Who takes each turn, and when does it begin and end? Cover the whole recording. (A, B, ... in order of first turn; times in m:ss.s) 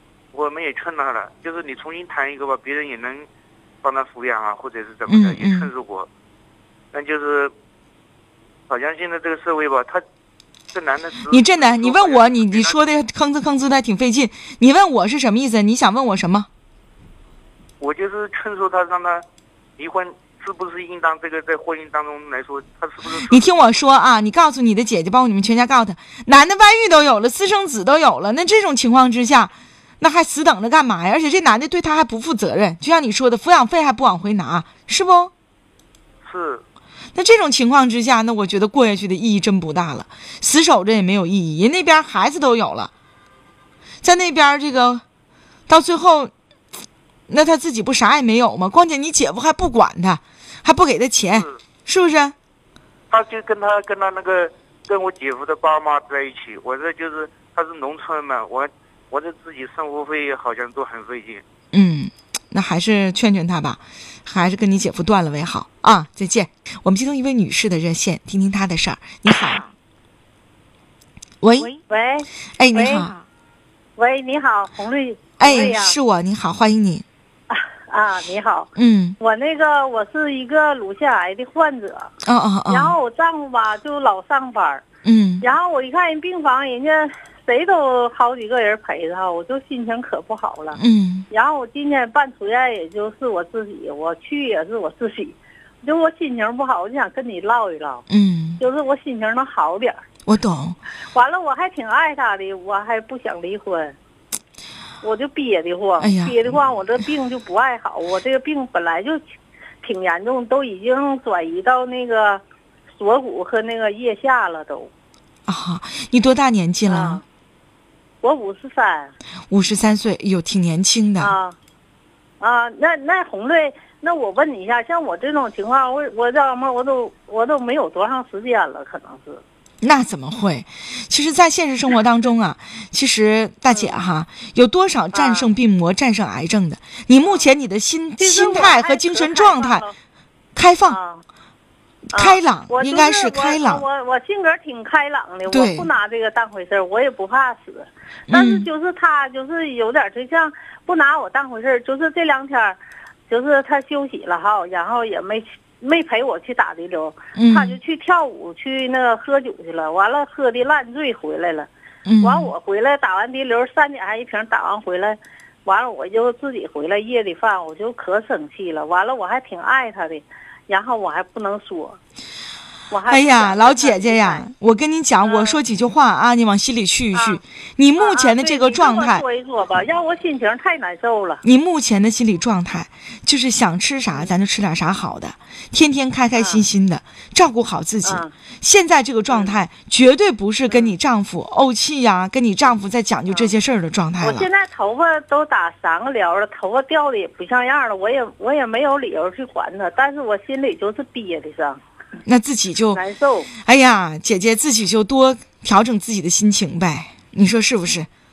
0:00.3-0:03.3 A
0:03.8-0:06.1 A
0:05.0-0:05.7 B
0:06.9-0:07.5 A
0:08.7-0:10.0 A
0:10.7-0:12.8 A
0:11.3-0:16.5 B
0:17.8-0:19.2 A
0:19.8-0:23.5 A
0:23.2-0:35.3 B
0:36.2-0:36.6 A
0:37.1-0:42.9 B
0:44.0-0:45.0 B
0:45.7-0:46.3 B
0:47.3-0:52.3 B
0:51.2-0:51.6 A
0:53.1-1:01.4 A
1:01.7-1:09.6 B
1:11.4-1:11.7 B
1:11.9-1:13.1 C
1:12.6-1:13.1 B
1:14.0-1:16.0 C
1:15.4-1:17.0 B
1:17.5-1:22.1 C
1:18.7-1:19.2 B
1:22.2-1:23.0 B
1:22.7-1:24.8 C
1:25.0-1:25.5 B
1:25.4-1:38.0 C
1:30.7-1:31.2 B
1:38.1-1:38.6 B
1:38.6-1:40.0 C
1:40.2-1:40.8 B
1:41.1-1:43.9 C
1:45.0-1:49.2 C
1:46.0-1:46.6 B
1:49.8-1:52.4 C
1:53.0-1:54.9 C
1:55.5-1:57.2 B
1:56.8-1:57.2 C
1:58.2-1:59.1 C
1:59.5-2:01.4 B
2:01.2-2:01.6 C
2:02.4-2:09.4 C
2:09.8-2:19.8 B
2:13.7-2:14.1 C
2:15.1-2:15.5 C
2:18.2-2:19.9 C
2:20.5-2:21.0 B
2:20.8-2:21.2 C
2:22.1-2:23.8 B
2:22.1-2:41.7 C
2:25.5-2:25.9 B
2:28.3-2:28.7 B
2:37.4-2:37.8 B
2:42.0-2:42.5 B
2:42.2-2:52.0 C
2:52.9-2:54.5 C
2:53.0-2:59.2 B
2:55.2-2:55.6 C
2:57.1-2:57.4 C
2:58.0-3:01.4 C
3:01.4-3:14.5 B
3:06.4-3:06.6 C
3:08.0-3:08.3 C
3:09.3-3:09.6 C
3:10.7-3:10.9 C
3:14.2-3:21.8 C
3:22.2-3:23.0 B
3:22.9-3:23.5 C
3:23.6-3:28.1 B